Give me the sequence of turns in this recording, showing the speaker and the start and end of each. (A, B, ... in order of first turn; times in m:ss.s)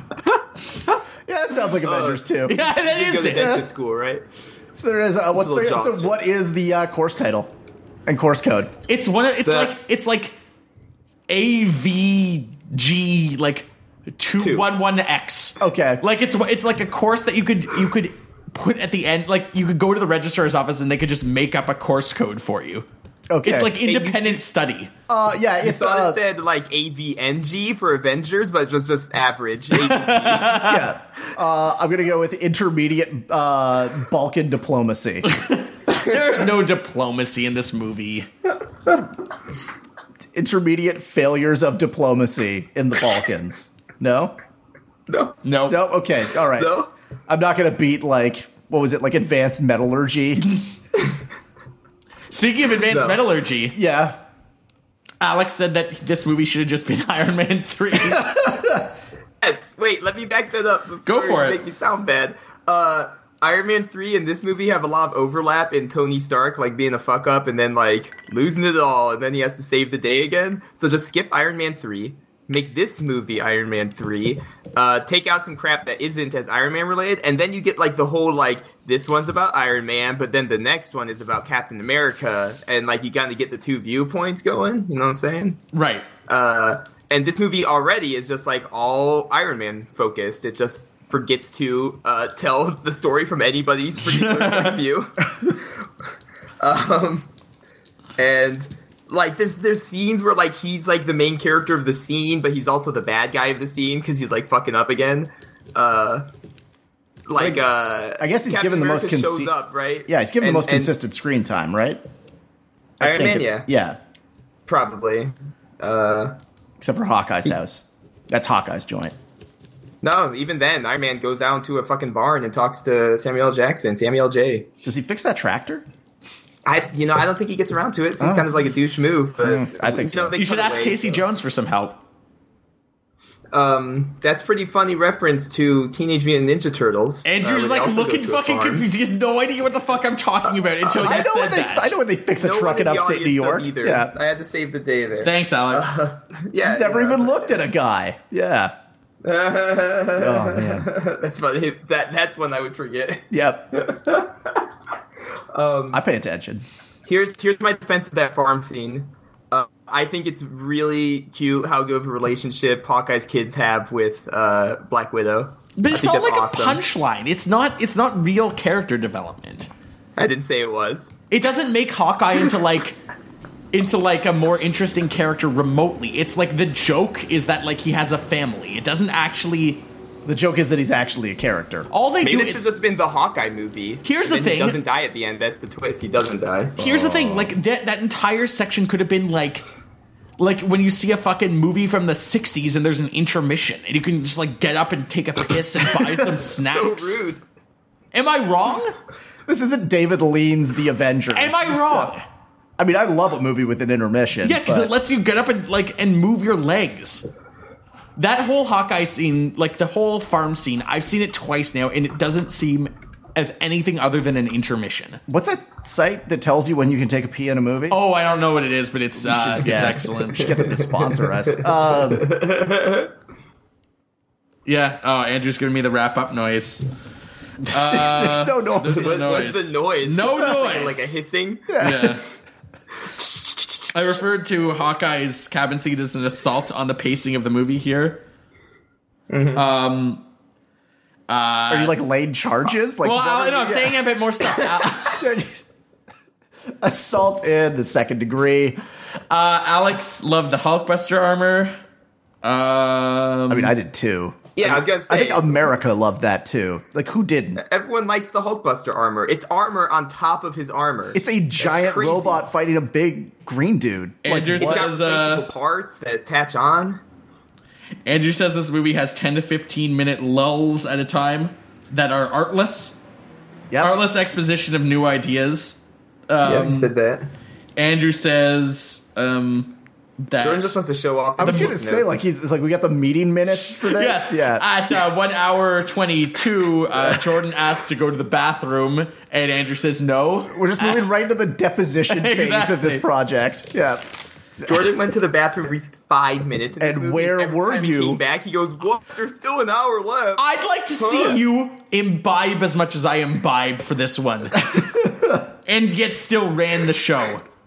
0:01.2-0:02.6 A
0:01.8-0:04.2 B
0:02.4-0:03.6 C
0:03.3-0:03.6 A
0:04.7-0:07.5 A
0:05.3-0:06.2 B
0:08.0-0:08.7 A
0:08.8-0:10.3 C
0:09.4-0:09.7 B
0:11.3-0:22.8 C
0:14.4-0:14.7 B
0:15.6-0:16.0 A
0:23.3-0:23.8 A
0:23.4-0:24.9 C
0:23.8-0:24.4 B
0:25.1-0:26.2 A
0:25.6-0:30.6 B
0:29.7-0:30.9 C
0:30.6-0:35.3 A
0:35.2-0:38.3 C
0:40.3-0:44.4 A
0:45.1-0:45.4 B
0:45.4-0:45.8 C
0:45.7-0:46.8 A
0:46.6-0:46.9 B
0:47.3-0:50.6 A
0:52.3-0:53.8 C
0:52.9-0:53.2 B
0:53.7-0:54.2 A
0:55.2-0:58.5 C
0:58.1-0:58.9 A
0:59.4-1:25.6 B
1:01.0-1:01.6 C
1:25.7-1:26.1 C
1:26.3-1:35.7 B
1:34.0-1:34.8 C
1:36.6-1:37.3 B
1:38.2-1:46.2 B
1:47.3-1:50.9 B
1:47.4-1:47.6 A
1:48.2-1:49.5 A
1:50.1-1:52.0 A
1:53.0-1:54.0 A
1:53.0-1:53.7 B
1:54.7-1:56.4 B
1:56.8-1:59.1 A
2:00.0-2:04.7 B
2:04.8-2:05.8 A
2:06.6-2:11.2 B
2:08.2-2:08.5 A
2:09.4-2:10.4 A
2:10.4-2:12.0 C
2:13.5-2:18.9 B
2:17.2-2:22.0 C
2:20.9-2:24.1 A
2:22.4-2:27.6 B
2:25.2-2:26.0 C
2:26.6-2:28.7 A
2:29.2-2:34.6 B
2:30.2-2:30.9 A
2:33.3-2:33.7 A
2:35.5-2:36.0 B
2:35.9-2:36.6 A
2:37.0-2:46.8 B
2:45.8-2:49.7 C
2:50.2-2:51.1 B
2:51.3-2:53.0 C
2:53.7-2:59.9 C
3:00.2-3:01.9 A
3:01.9-3:02.6 C
3:02.2-3:06.8 B
3:04.0-3:04.8 C
3:06.8-3:07.5 A
3:06.8-3:09.6 C
3:10.4-3:17.2 C
3:16.4-3:17.4 B
3:18.1-3:18.9 C
3:19.5-3:22.1 A
3:21.3-3:22.2 C
3:22.8-3:24.9 A
3:24.4-3:27.2 C
3:28.2-3:35.2 C
3:35.3-3:38.0 A
3:37.9-3:40.6 C
3:39.2-3:42.3 A
3:41.2-3:43.1 B
3:44.6-3:46.8 C
3:47.6-3:51.2 C
3:47.7-3:49.5 A
3:48.9-3:51.7 B
3:51.7-3:52.2 A
3:51.8-3:52.2 C
3:53.9-3:58.2 C
3:59.3-3:59.6 B
3:59.5-4:00.2 C
4:01.3-4:02.0 C
4:01.7-4:04.0 A
4:03.0-4:05.2 C
4:05.2-4:05.6 A
4:06.8-4:08.8 A
4:09.3-4:11.7 C
4:12.4-4:13.7 C
4:13.5-4:17.6 A
4:14.6-4:15.6 B
4:17.6-4:22.4 B
4:21.1-4:24.9 A
4:24.2-4:25.4 C
4:24.5-4:27.0 B
4:28.0-4:33.0 C
4:33.7-4:34.0 A
4:33.8-4:36.9 C
4:36.4-4:37.3 B
4:37.8-4:40.8 C
4:40.4-4:42.2 B
4:41.4-4:41.7 C
4:41.4-4:44.6 A
4:43.5-4:51.0 C
4:50.5-4:54.0 A
4:52.1-4:53.0 C
4:54.6-5:01.4 B
4:56.8-4:58.2 A
5:00.4-5:05.1 C
5:05.6-5:07.4 C